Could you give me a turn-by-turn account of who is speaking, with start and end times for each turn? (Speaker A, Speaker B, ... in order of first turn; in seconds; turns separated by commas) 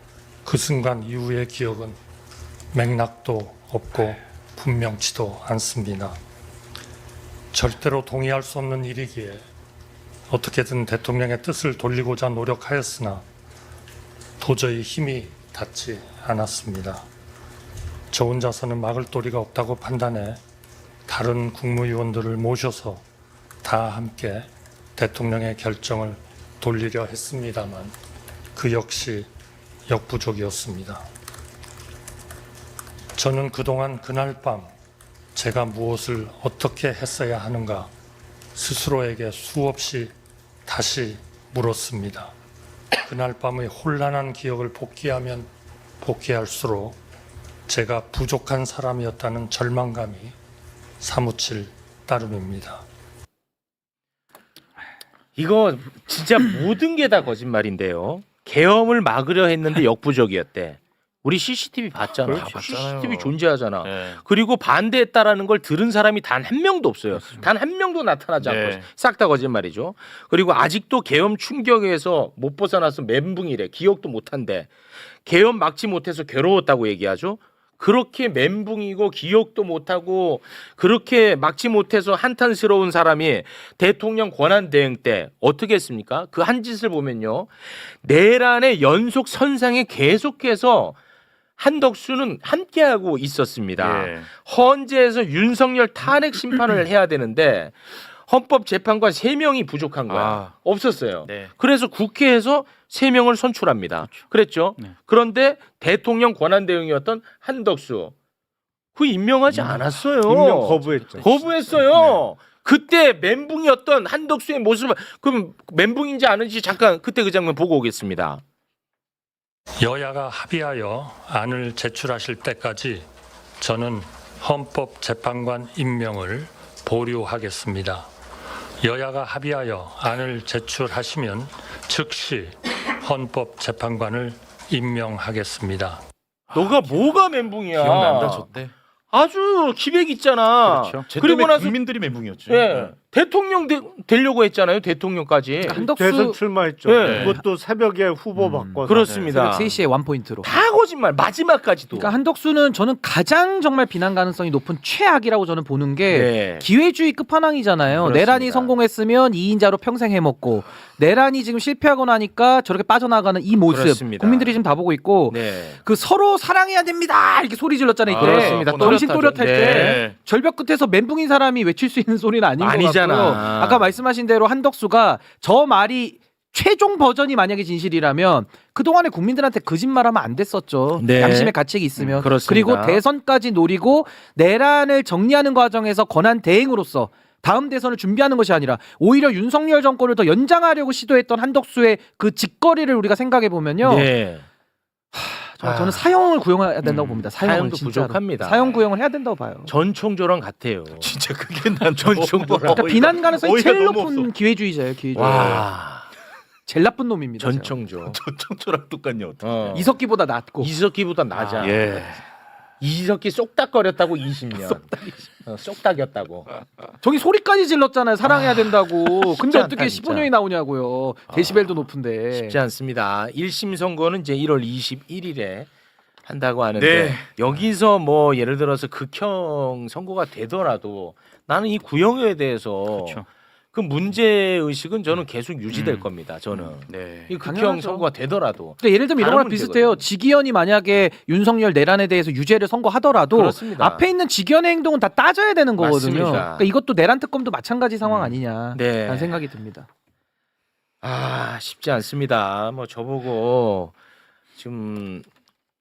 Speaker A: 0.5-2.0, Speaker A: 2.7-6.2, Speaker A: 7.5-9.5, Speaker A: 10.3-13.2, Speaker A: 14.4-17.0, Speaker A: 18.1-20.4, Speaker A: 21.1-23.0, Speaker A: 23.6-27.9, Speaker A: 28.6-29.3, Speaker A: 29.9-31.1, Speaker A: 33.2-34.7, Speaker A: 35.4-37.9, Speaker A: 38.5-40.1, Speaker A: 40.7-42.3, Speaker A: 43.1-45.5, Speaker A: 46.0-47.0, Speaker A: 47.7-50.4, Speaker A: 51.0-52.9, Speaker B: 55.4-74.7, Speaker C: 62.2-64.2, Speaker C: 68.4-68.9, Speaker B: 75.2-91.0, Speaker B: 91.6-108.1, Speaker C: 93.8-94.3, Speaker C: 100.1-100.5, Speaker C: 101.2-101.5, Speaker B: 109.0-118.4, Speaker C: 109.5-109.8, Speaker D: 110.2-111.3, Speaker C: 111.2-112.2, Speaker A: 119.8-123.1, Speaker A: 123.6-128.1, Speaker A: 128.8-136.0, Speaker C: 136.5-137.2, Speaker B: 136.5-138.5, Speaker C: 137.7-138.7, Speaker B: 139.1-141.8, Speaker C: 140.7-142.9, Speaker B: 142.5-145.8, Speaker E: 145.6-146.4, Speaker D: 145.7-149.2, Speaker B: 146.8-147.4, Speaker C: 147.0-147.4, Speaker B: 148.8-149.8, Speaker E: 149.3-150.7, Speaker B: 150.4-152.2, Speaker E: 151.9-194.1, Speaker B: 156.1-156.7, Speaker B: 157.9-158.7, Speaker B: 163.7-164.6, Speaker B: 165.3-165.8, Speaker C: 168.1-169.0, Speaker B: 168.2-170.0, Speaker C: 169.7-170.2, Speaker B: 172.6-173.9, Speaker B: 181.0-183.0, Speaker B: 193.8-194.4, Speaker E: 195.1-199.7, Speaker B: 195.6-196.1, Speaker C: 196.9-197.2, Speaker B: 197.4-198.8, Speaker B: 199.7-201.1, Speaker C: 201.0-204.3, Speaker B: 202.0-203.1, Speaker E: 202.7-205.6, Speaker C: 205.2-205.7, Speaker B: 205.2-206.1, Speaker E: 206.7-207.7, Speaker B: 207.4-208.2, Speaker C: 208.0-209.8, Speaker B: 209.4-210.0, Speaker E: 209.7-210.7, Speaker B: 210.6-212.0, Speaker C: 211.3-212.2, Speaker B: 212.8-216.5, Speaker E: 217.0-222.6, Speaker B: 218.2-220.3, Speaker B: 222.3-225.7, Speaker B: 226.2-240.1, Speaker C: 226.8-227.4, Speaker C: 235.7-237.4, Speaker E: 237.4-238.1, Speaker E: 238.8-249.9, Speaker B: 243.3-244.1, Speaker B: 245.8-246.7, Speaker B: 248.1-249.4, Speaker B: 251.0-253.9, Speaker B: 254.6-255.3